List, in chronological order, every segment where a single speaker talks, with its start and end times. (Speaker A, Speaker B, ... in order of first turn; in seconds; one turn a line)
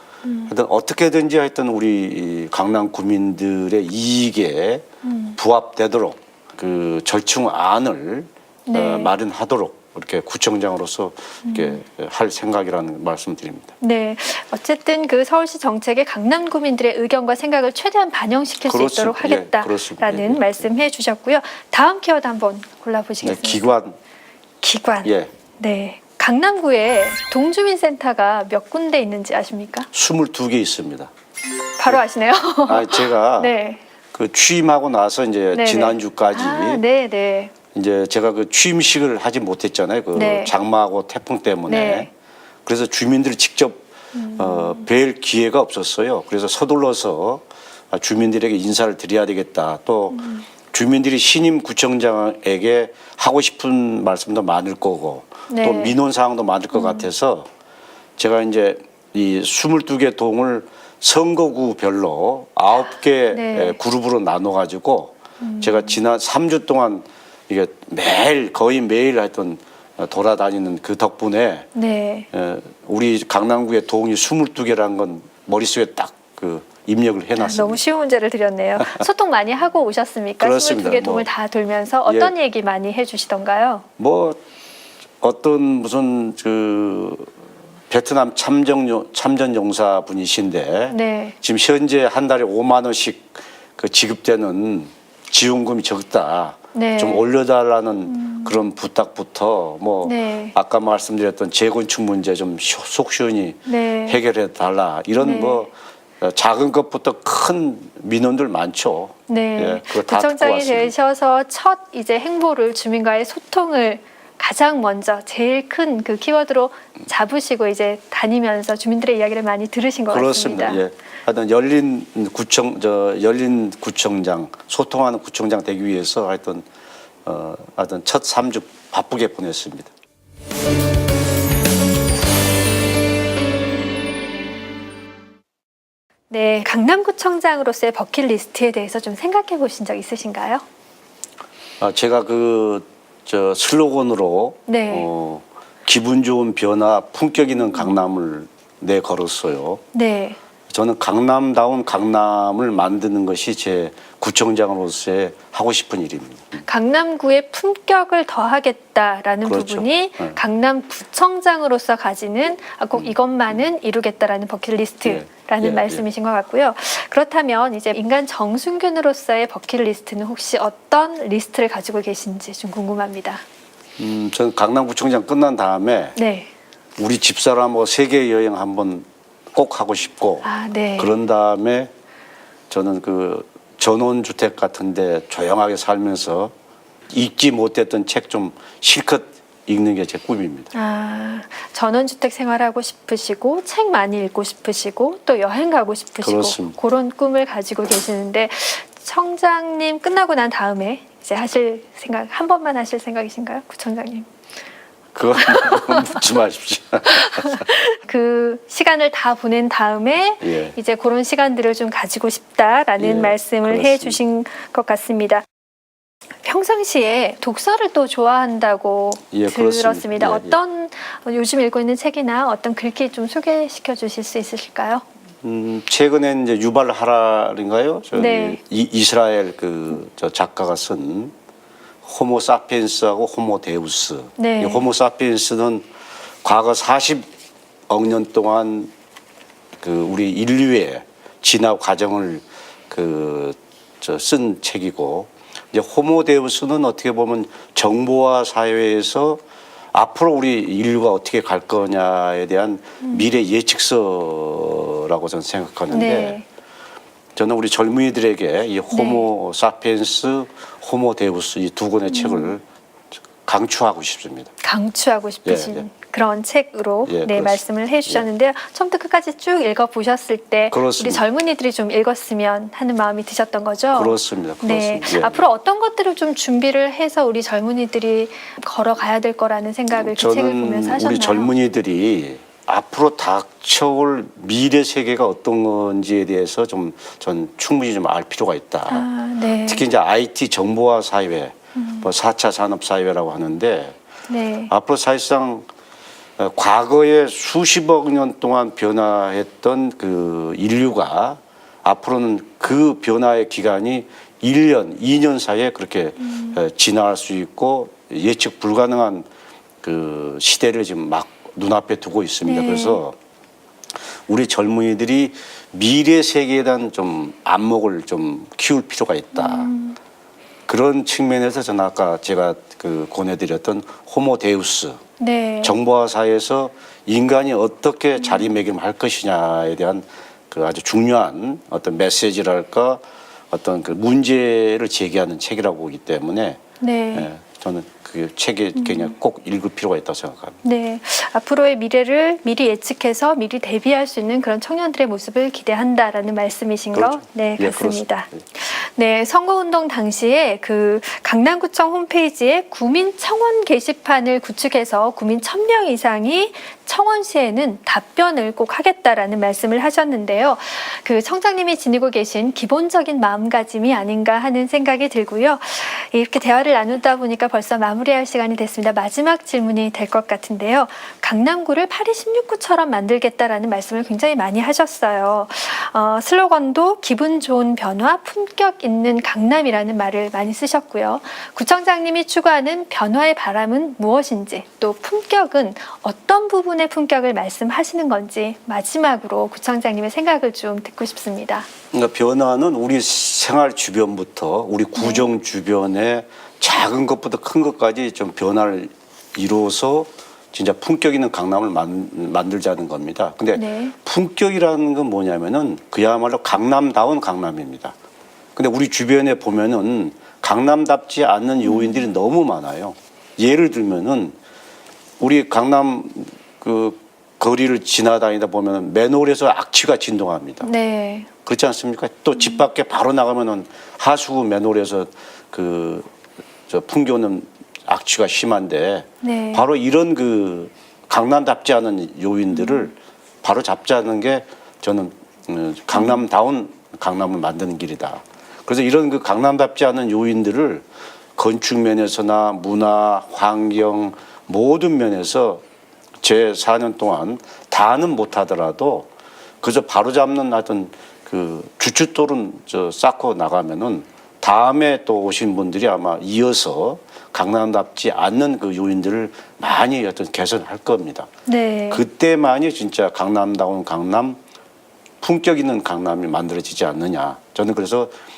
Speaker A: 0.2-0.5
Speaker B: 0.5-4.8
Speaker A: 5.0-5.4
Speaker B: 5.4-13.7
Speaker A: 8.7-9.1
Speaker A: 11.4-11.8
Speaker A: 13.8-23.6
Speaker B: 18.6-20.7
Speaker B: 23.2-23.9
Speaker A: 24.6-29.9
Speaker B: 25.0-25.3
Speaker B: 29.9-31.1
Speaker A: 31.8-33.8
Speaker B: 32.6-33.5
Speaker B: 34.1-36.8
Speaker A: 35.5-37.5
Speaker B: 37.7-42.1
Speaker A: 40.1-40.5
Speaker A: 41.7-42.1
Speaker B: 42.6-57.5
Speaker A: 44.1-44.9
Speaker A: 50.1-50.5
Speaker A: 55.5-56.0
Speaker A: 56.7-57.1
Speaker B: 58.2-71.7
Speaker A: 63.3-63.8
Speaker A: 65.4-66.0
Speaker A: 71.7-72.3
Speaker B: 72.3-77.8
Speaker A: 77.4-83.8
Speaker B: 78.8-79.0
Speaker B: 80.4-81.3
Speaker B: 82.0-82.3
Speaker B: 84.0-84.4
Speaker B: 85.2-87.3
Speaker B: 87.9-110.9
Speaker A: 90.9-91.3
Speaker A: 96.7-97.2
Speaker A: 98.1-98.5
Speaker A: 100.0-100.5
Speaker A: 103.7-104.2
Speaker A: 105.2-105.6
Speaker A: 109.3-120.8
Speaker B: 120.1-126.7
Speaker B: 127.2-129.9
Speaker A: 136.3-140.6
Speaker B: 141.8-149.8
Speaker A: 144.7-145.1
Speaker A: 149.9-150.4
Speaker B: 150.7-156.6
Speaker A: 156.7-173.4
Speaker B: 159.4-160.4
Speaker B: 165.0-166.0
Speaker B: 174.0-176.1
Speaker A: 176.2-176.5
Speaker B: 177.0-180.5
Speaker A: 180.4-181.1
Speaker B: 181.0-181.9
Speaker B: 182.7-186.5
Speaker B: 187.1-190.7
Speaker A: 190.7-204.3
Speaker B: 196.2-196.8
Speaker B: 205.1-207.6
Speaker A: 205.4-206.1
Speaker A: 207.2-215.4
Speaker B: 210.4-210.7
Speaker B: 213.0-214.2
Speaker A: 216.4-225.0
Speaker B: 219.3-220.6
Speaker B: 225.4-231.3
Speaker A: 228.1-228.6
Speaker B: 232.0-235.8
Speaker A: 234.4-234.8
Speaker B: 236.4-237.3
Speaker B: 237.9-238.9
Speaker B: 239.8-249.4
Speaker B: 249.9-256.4
Speaker A: 255.9-256.4
Speaker B: 257.4-262.6
Speaker A: 258.9-259.2
Speaker A: 262.1-262.6
Speaker B: 263.4-264.5
Speaker A: 264.6-281.5
Speaker B: 265.4-265.8
Speaker B: 267.1-268.2
Speaker B: 270.7-271.2
Speaker B: 273.9-275.4
Speaker B: 279.9-289.1
Speaker A: 288.9-289.8
Speaker B: 289.6-293.9
Speaker A: 291.8-292.1
Speaker A: 294.3-294.7
Speaker B: 294.7-295.7
Speaker B: 296.4-309.3
Speaker A: 306.2-306.6
Speaker B: 309.8-313.2
Speaker A: 312.4-313.0
Speaker B: 314.3-319.7
Speaker A: 319.3-320.0
Speaker B: 320.7-325.0
Speaker A: 325.2-325.8
Speaker B: 325.6-336.6
Speaker A: 336.8-337.3
Speaker B: 337.1-340.6
Speaker A: 338.8-339.1
Speaker A: 340.6-391.7
Speaker B: 346.9-348.3
Speaker B: 391.9-407.9
Speaker A: 394.9-395.3
Speaker A: 403.5-403.9
Speaker B: 408.6-414.4
Speaker A: 411.6-412.0
Speaker B: 415.2-420.7
Speaker A: 420.6-421.3
Speaker B: 421.4-426.1
Speaker B: 426.7-445.6
Speaker A: 429.2-429.6
Speaker B: 446.2-449.1
Speaker B: 449.6-461.3
Speaker A: 461.5-462.0
Speaker B: 461.9-464.4
Speaker B: 465.2-468.1